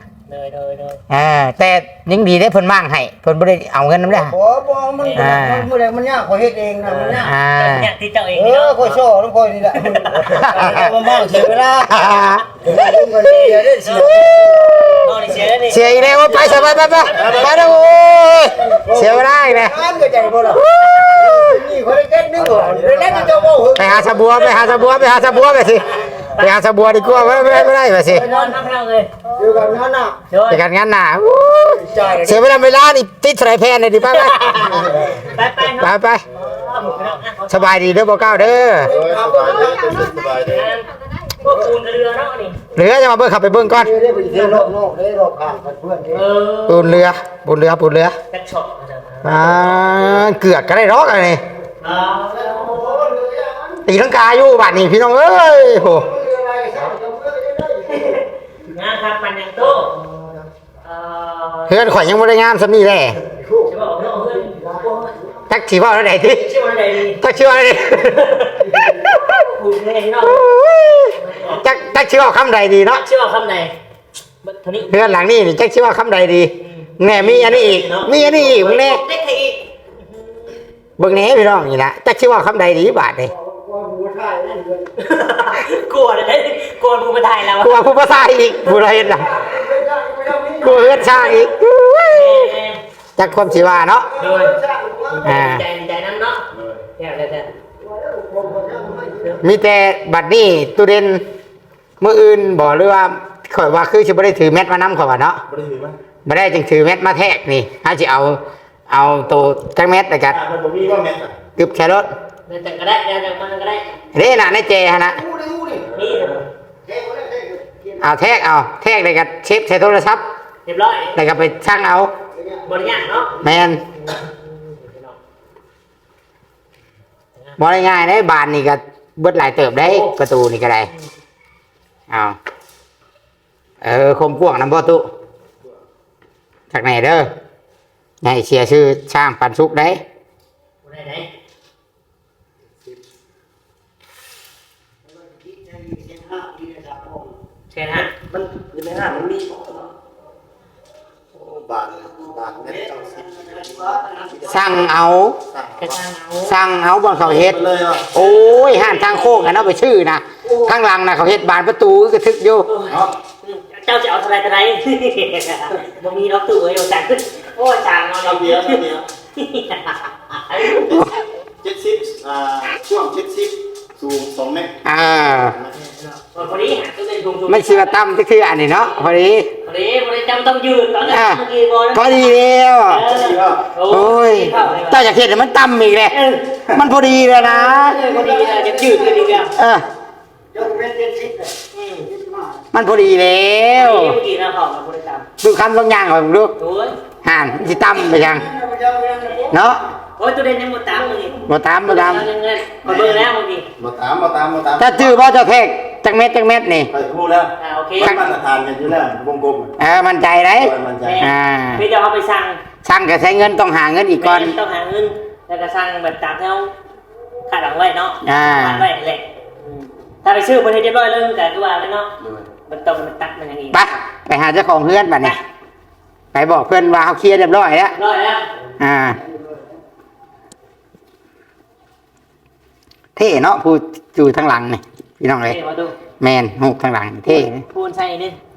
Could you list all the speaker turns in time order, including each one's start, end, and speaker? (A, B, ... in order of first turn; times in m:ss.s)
0:00.3-0:01.0 A
0:01.1-0:04.4 B
0:04.1-0:07.3 C
0:05.0-0:05.3 A
0:05.1-0:05.7 B
0:06.8-0:09.0 A
0:07.2-0:07.9 B
0:08.3-0:15.3 C
0:09.8-0:10.5 A
0:10.4-0:10.9 B
0:11.9-0:12.5 B
0:12.7-0:14.2 A
0:14.2-0:15.1 B
0:15.0-0:17.6 A
0:15.6-0:19.8 B
0:17.1-0:18.0 D
0:18.7-0:24.7 C
0:20.4-0:21.6 B
0:22.4-0:23.6 D
0:23.7-0:28.3 B
0:24.5-0:29.6 A
0:28.1-0:28.6 C
0:29.3-0:30.2 C
0:30.3-0:30.6 A
0:30.5-0:35.0 B
0:31.6-0:32.4 C
0:34.2-0:38.1 A
0:35.6-0:36.2 B
0:37.5-0:38.9 B
0:38.8-0:39.9 C
0:38.8-0:40.8 D
0:40.4-0:42.6 A
0:42.7-0:43.9 B
0:43.7-0:46.2 C
0:44.3-0:44.7 A
0:46.1-0:47.0 A
0:46.7-0:48.2 B
0:48.3-0:49.6 A
0:49.2-0:51.4 B
0:51.8-0:52.9 A
0:51.8-0:53.8 C
0:53.8-0:56.1 B
0:55.7-0:58.2 C
0:58.7-1:00.0 A
1:00.8-1:01.8 A
1:01.7-1:03.2 B
1:03.3-1:03.7 C
1:03.6-1:05.1 A
1:04.2-1:05.2 C
1:05.5-1:06.5 B
1:06.3-1:07.2 A
1:07.2-1:08.4 B
1:08.1-1:08.6 A
1:08.6-1:09.0 C
1:09.0-1:09.5 B
1:09.5-1:10.4 A
1:10.2-1:13.0 B
1:11.1-1:11.6 A
1:12.9-1:13.7 A
1:14.4-1:15.1 A
1:14.9-1:19.0 B
1:16.6-1:16.9 A
1:17.1-1:18.5 D
1:18.3-1:19.6 A
1:21.0-1:23.3 B
1:23.3-1:24.9 C
1:25.0-1:27.8 A
1:27.6-1:29.3 B
1:28.7-1:31.4 C
1:30.6-1:31.5 A
1:30.6-1:32.5 B
1:32.1-1:32.8 A
1:33.2-1:34.1 B
1:33.9-1:35.4 C
1:34.2-1:34.6 A
1:35.1-1:36.4 A
1:35.2-1:35.6 B
1:36.5-1:36.8 D
1:37.0-1:37.5 A
1:37.8-1:39.4 C
1:39.4-1:41.2 B
1:42.0-1:45.4 B
1:45.5-1:46.0 D
1:46.2-1:50.4 B
1:50.3-1:51.4 D
1:51.6-1:52.1 B
1:52.5-1:54.0 A
1:54.1-1:55.2 B
1:55.1-1:55.9 C
1:55.9-1:56.4 A
1:56.8-1:58.1 C
1:58.0-2:00.2 B
2:00.6-2:01.2 A
2:01.1-2:02.1 B
2:02.3-2:02.6 C
2:02.6-2:03.4 A
2:03.4-2:03.8 B
2:04.1-2:05.2 A
2:07.6-2:10.9 B
2:09.8-2:10.1 A
2:12.1-2:12.4 B
2:13.8-2:15.1 B
2:16.7-2:17.3 B
2:18.2-2:20.0 B
2:20.8-2:21.3 A
2:25.1-2:27.3 C
2:27.7-2:28.1 A
2:28.3-2:29.4 C
2:29.1-2:29.6 D
2:31.4-2:33.4 D
2:32.0-2:34.6 C
2:34.4-2:35.4 B
2:35.5-2:35.9 D
2:35.8-2:36.5 A
2:36.4-2:37.6 B
2:37.2-2:38.1 D
2:38.1-2:42.7 B
2:38.1-2:39.7 A
2:42.7-2:48.8 A
2:48.2-2:49.0 D
2:49.3-2:51.0 A
2:51.6-2:54.8 D
2:54.8-2:55.6 B
2:55.8-2:57.9 A
2:57.5-2:59.5 B
2:59.6-3:05.0 A
3:01.0-3:03.0 B
3:03.1-3:03.7 D
3:03.9-3:06.2 B
3:06.1-3:06.6 A
3:06.7-3:08.0 B
3:07.3-3:09.5 A
3:07.6-3:09.5 C
3:09.6-3:09.8 B
3:10.5-3:12.6 C
3:11.7-3:12.1 A
3:12.7-3:14.2 B
3:13.7-3:15.3 A
3:15.4-3:16.6 B
3:16.6-3:17.0 A
3:17.2-3:18.5 B
3:17.8-3:19.6 C
3:19.5-3:19.8 B
3:20.2-3:23.7 A
3:21.4-3:22.2 B
3:22.8-3:25.2 D
3:24.8-3:26.9 B
3:26.9-3:29.7 D
3:27.6-3:28.1 A
3:28.0-3:28.3 B
3:29.8-3:31.8 B
3:30.6-3:31.3 D
3:31.0-3:32.6 A
3:32.8-3:34.5 B
3:34.2-3:36.7 A
3:37.5-3:42.1 A
3:38.2-3:38.9 B
3:42.7-3:43.8 A
3:43.7-3:45.4 B
3:46.3-3:48.0 B
3:47.9-3:48.4 A
3:48.8-3:49.2 B
3:53.2-3:55.6 B
3:55.4-3:56.0 A
3:56.2-3:57.6 B
3:57.7-3:58.4 A